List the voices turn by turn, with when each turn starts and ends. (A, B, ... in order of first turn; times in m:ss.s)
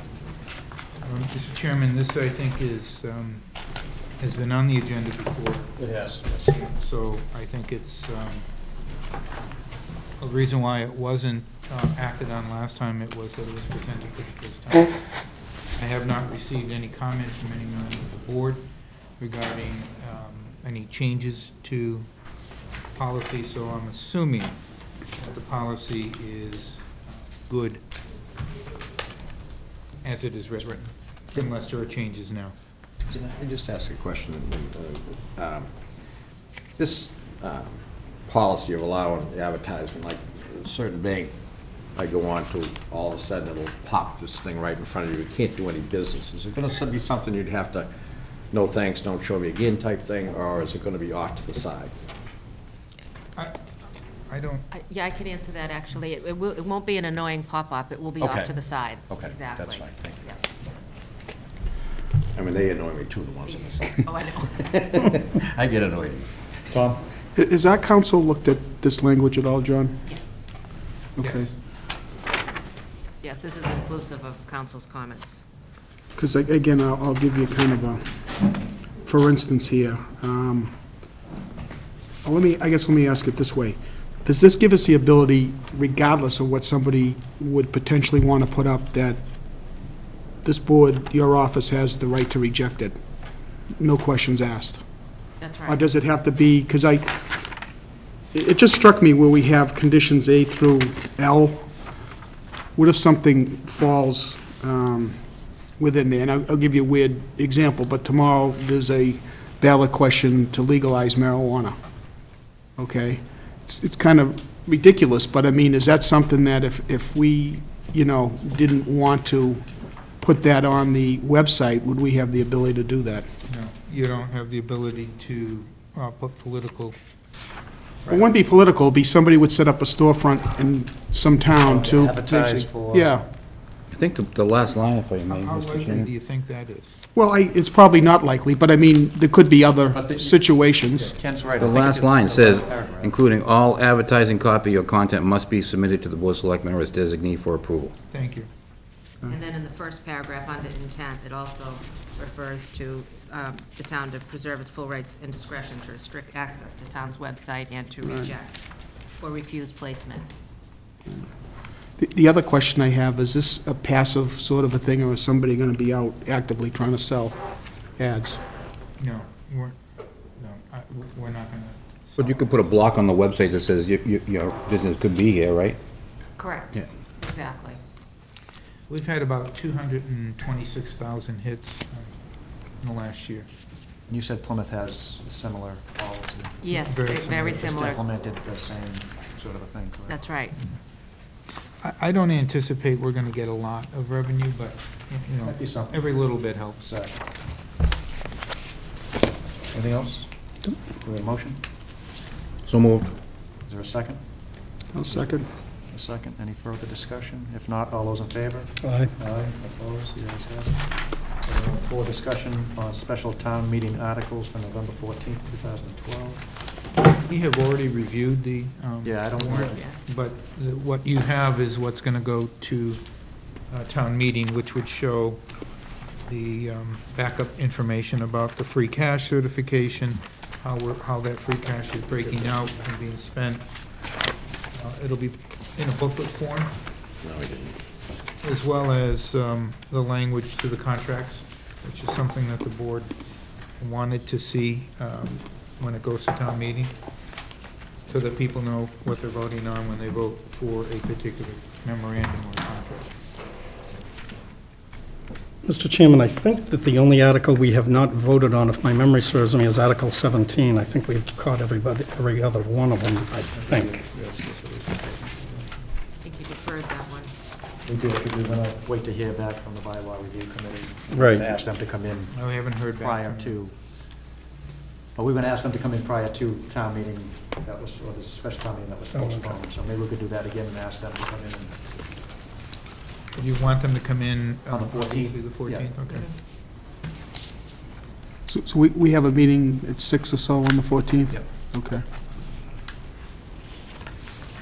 0:01.0-0:03.4 A
0:04.2-0:05.7 A
0:05.8-0:06.6 B
0:06.4-0:08.4 A
0:10.2-0:15.0 A
0:15.7-0:18.7 A
0:19.2-0:22.1 A
0:23.0-0:24.6 A
0:25.2-0:27.8 A
0:30.0-0:32.5 A
0:33.0-0:35.7 C
0:36.8-0:41.3 C
0:41.9-0:47.9 C
0:48.5-0:51.9 C
0:54.3-0:54.7 A
0:54.7-1:00.4 D
0:58.2-1:00.2 C
1:02.3-1:06.4 C
1:03.4-1:05.0 D
1:06.7-1:07.0 B
1:07.3-1:10.0 E
1:10.1-1:10.4 D
1:11.2-1:11.5 E
1:11.2-1:11.5 A
1:13.2-1:15.4 D
1:16.1-1:18.1 E
1:19.0-1:20.8 E
1:22.2-1:29.2 E
1:30.4-1:33.0 E
1:33.8-1:34.8 E
1:35.4-1:35.8 D
1:35.6-1:37.1 E
1:38.3-1:41.8 E
1:42.8-1:51.8 E
1:52.8-1:59.6 E
2:00.2-2:03.3 E
2:03.5-2:07.0 A
2:08.1-2:13.2 E
2:11.6-2:13.2 B
2:11.7-2:12.1 A
2:13.9-2:16.1 F
2:15.3-2:17.0 A
2:17.1-2:21.1 E
2:19.9-2:23.2 B
2:21.6-2:27.9 F
2:28.1-2:28.5 A
2:29.3-2:38.6 D
2:38.0-2:38.3 E
2:39.2-2:40.3 D
2:42.0-2:47.4 E
2:48.0-2:48.4 E
2:49.0-2:49.8 A
2:50.4-2:52.9 A
2:52.2-2:55.8 F
2:56.4-2:57.8 D
2:58.9-3:02.1 A
3:02.8-3:03.5 A
3:04.1-3:06.7 B
3:06.6-3:08.0 D
3:06.8-3:07.7 A
3:07.4-3:10.2 B
3:10.1-3:10.5 D
3:11.8-3:16.9 A
3:15.4-3:17.2 B
3:19.7-3:21.6 B
3:22.6-3:23.1 F
3:23.6-3:36.5 B
3:24.9-3:25.5 E
3:28.8-3:29.1 G
3:37.1-3:43.0 A
3:39.0-3:39.9 B
3:43.7-3:45.4 A
3:46.2-3:53.6 A
3:52.1-3:52.7 B
3:54.7-3:56.7 A
3:57.2-3:57.8 C
3:58.4-4:03.1 A
4:03.8-4:06.9 A
4:08.1-4:13.1 A
4:15.6-4:24.0 G
4:23.5-4:25.9 B
4:26.2-4:27.3 D
4:27.8-4:33.7 B
4:31.1-4:31.5 G
4:32.3-4:33.6 A
4:35.2-4:41.8 B
4:39.1-4:39.6 G
4:43.3-4:46.2 A
4:44.7-4:46.0 B
4:46.1-4:46.3 D
4:48.5-4:52.0 E
4:51.3-4:51.7 B